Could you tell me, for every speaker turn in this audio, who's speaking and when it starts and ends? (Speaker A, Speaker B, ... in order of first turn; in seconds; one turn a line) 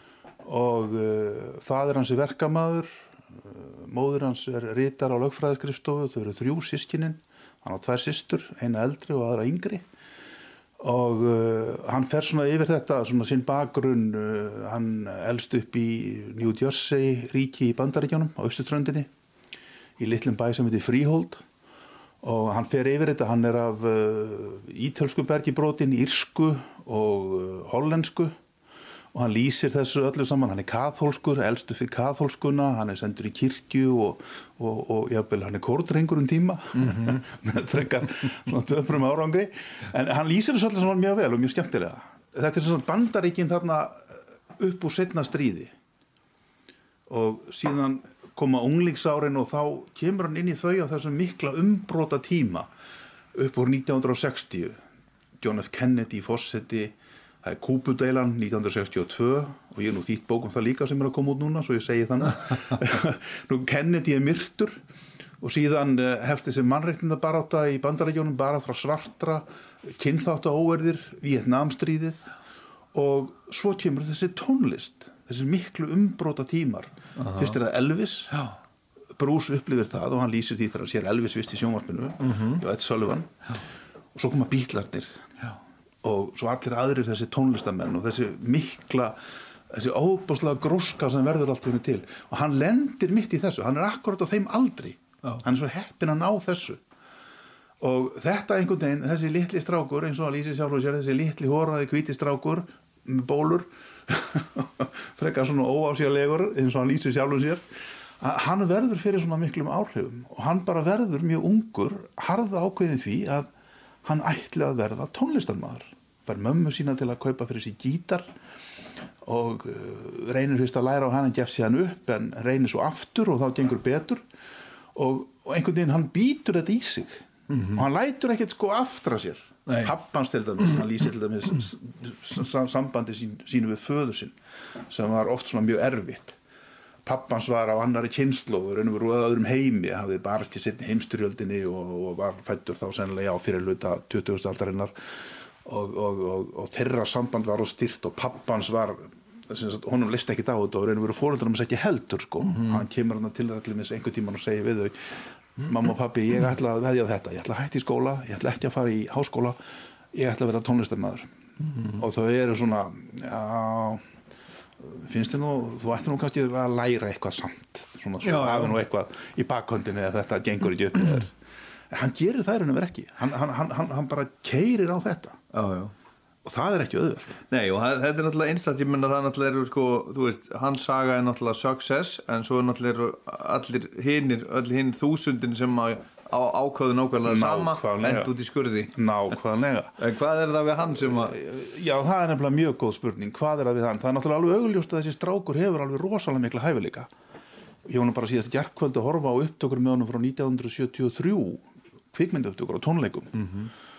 Speaker A: 0.4-9.9
Speaker A: 10.8-19.1
Speaker A: 20.0-21.4
Speaker A: 22.2-28.4
Speaker A: 29.1-45.7
Speaker B: 36.8-37.2
Speaker A: 47.1-52.7
Speaker A: 53.3-54.8
Speaker A: 55.4-64.8
Speaker A: 65.4-72.3
Speaker A: 72.9-78.3
Speaker B: 77.2-77.6
Speaker A: 79.2-83.3
Speaker B: 82.2-82.6
Speaker A: 84.2-85.1
Speaker A: 86.0-96.8
Speaker A: 97.8-107.6
Speaker A: 108.2-113.5
Speaker A: 114.0-118.3
Speaker A: 119.2-124.2
Speaker A: 125.0-134.4
Speaker B: 127.5-127.8
Speaker B: 129.7-129.9
Speaker A: 134.9-136.4
Speaker A: 137.1-144.9
Speaker A: 145.6-159.6
Speaker B: 152.4-152.8
Speaker A: 160.1-161.3
Speaker B: 161.7-162.0
Speaker A: 162.0-164.0
Speaker A: 164.8-171.3
Speaker B: 168.2-168.8
Speaker A: 171.9-175.4
Speaker B: 175.5-175.9
Speaker A: 176.4-177.4
Speaker B: 177.5-188.9
Speaker A: 187.2-188.3
Speaker A: 188.9-189.9
Speaker B: 190.0-191.4
Speaker A: 190.9-197.1
Speaker A: 197.9-203.3
Speaker B: 203.3-203.7